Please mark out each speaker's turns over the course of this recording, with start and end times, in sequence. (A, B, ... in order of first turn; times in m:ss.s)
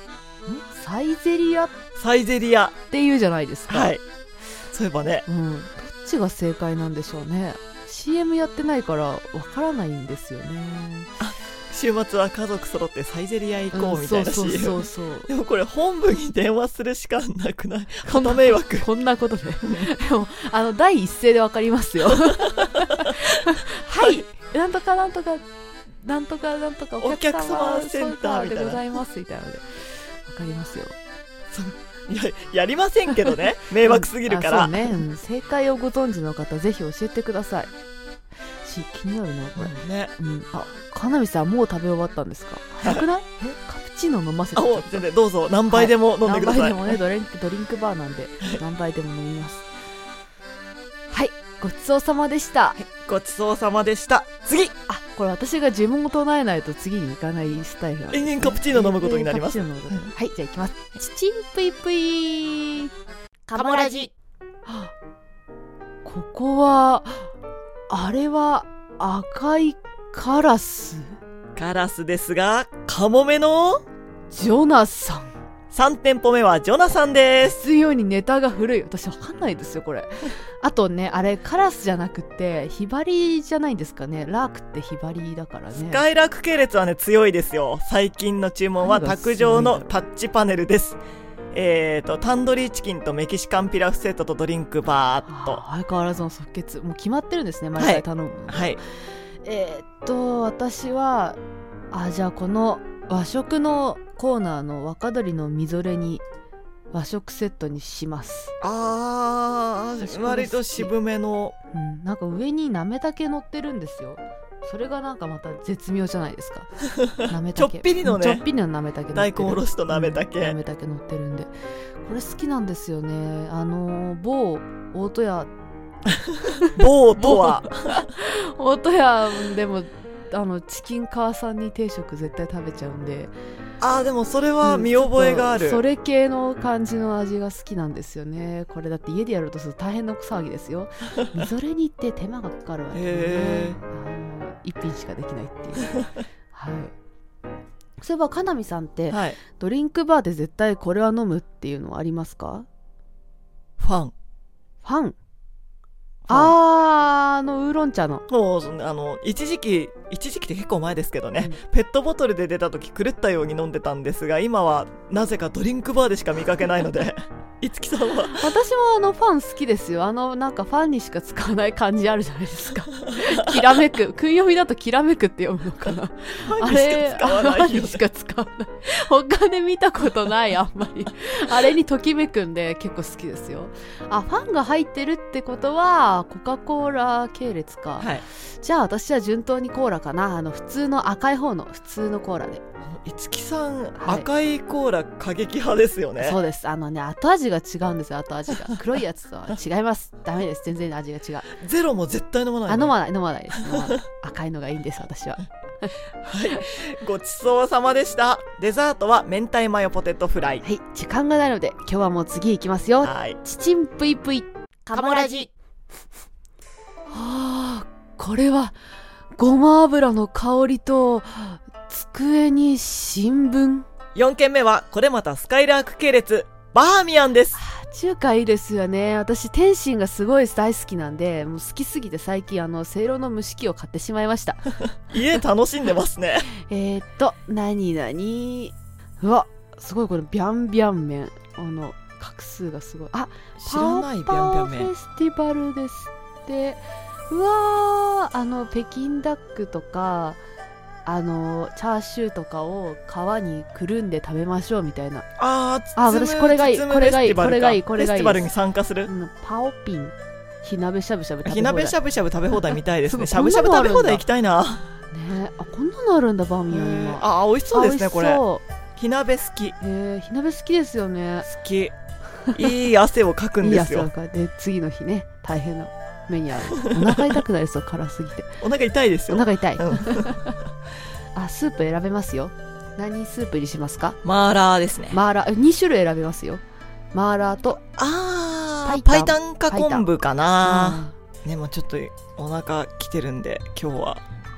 0:00.7-0:01.7 A
0:02.0-0:02.8 B
0:02.9-0:04.0 A
0:03.7-0:04.0 B
0:04.7-0:05.2 B
0:05.2-0:11.1 A
0:11.2-0:18.9 B
0:13.7-0:15.3 A
0:18.0-0:30.9 A
0:19.6-0:19.9 B
0:22.4-0:23.1 B
0:27.0-0:29.0 B
0:31.5-0:34.9 B
0:33.8-0:37.7 A
0:38.6-0:45.0 A
0:39.6-0:40.1 B
0:44.6-0:47.0 B
0:45.7-0:49.7 A
0:51.1-0:52.8 A
0:52.8-0:54.7 B
0:54.9-1:02.9 A
0:58.1-1:00.1 B
1:03.5-1:04.1 A
1:04.6-1:04.9 A
1:06.0-1:07.3 A
1:07.9-1:11.2 A
1:11.6-1:13.8 B
1:14.3-1:15.3 A
1:15.7-1:17.6 B
1:17.4-1:26.0 A
1:25.7-1:31.0 B
1:28.8-1:29.8 A
1:31.5-1:35.6 B
1:35.3-1:38.8 A
1:37.8-1:38.8 B
1:39.4-1:41.4 A
1:41.9-1:46.2 A
1:46.9-1:48.5 A
1:48.6-1:51.5 B
1:50.0-1:50.9 A
1:51.7-1:56.7 A
1:57.2-2:01.5 A
1:57.5-1:58.4 B
1:59.1-2:00.6 B
2:02.0-2:05.5 A
2:06.6-2:13.3 A
2:06.6-2:08.1 B
2:13.8-2:15.8 B
2:14.6-2:26.0 A
2:22.9-2:23.8 B
2:26.5-2:26.9 A
2:28.0-2:32.6 A
2:29.1-2:29.4 B
2:33.8-2:34.1 B
2:34.8-2:35.2 A
2:36.3-2:36.5 B
2:36.3-2:38.2 A
2:38.3-2:48.5 B
2:48.4-3:12.6 A
2:56.4-2:58.0 B
3:08.0-3:08.2 B
3:12.9-3:16.4 B
3:14.0-3:14.3 A
3:16.2-3:21.5 A
3:21.5-3:23.0 B
3:22.7-3:25.9 A
3:26.2-3:30.6 B
3:30.6-3:35.5 A
3:33.0-3:33.4 B
3:37.1-3:38.8 A
3:39.4-3:43.9 A
3:44.1-3:47.6 B
3:47.5-3:54.7 A
3:55.1-3:56.5 B
3:56.7-4:10.4 A
4:03.6-4:04.9 B
4:11.0-4:15.3 A
4:15.4-4:19.1 B
4:15.9-4:18.5 A
4:19.1-4:21.9 A
4:21.4-4:24.8 B
4:23.1-4:24.2 A
4:25.1-4:28.6 A
4:26.7-4:28.4 B
4:29.0-4:29.8 B
4:29.8-4:31.5 A
4:31.4-4:31.9 B
4:32.5-4:34.1 B
4:33.6-4:38.5 A
4:38.6-4:40.4 B
4:39.3-4:40.6 A
4:41.4-4:44.2 A
4:44.2-4:45.2 B
4:45.1-4:46.6 A
4:47.1-4:47.8 A
4:48.0-4:54.2 B
4:48.8-4:50.0 A
4:50.6-4:51.1 A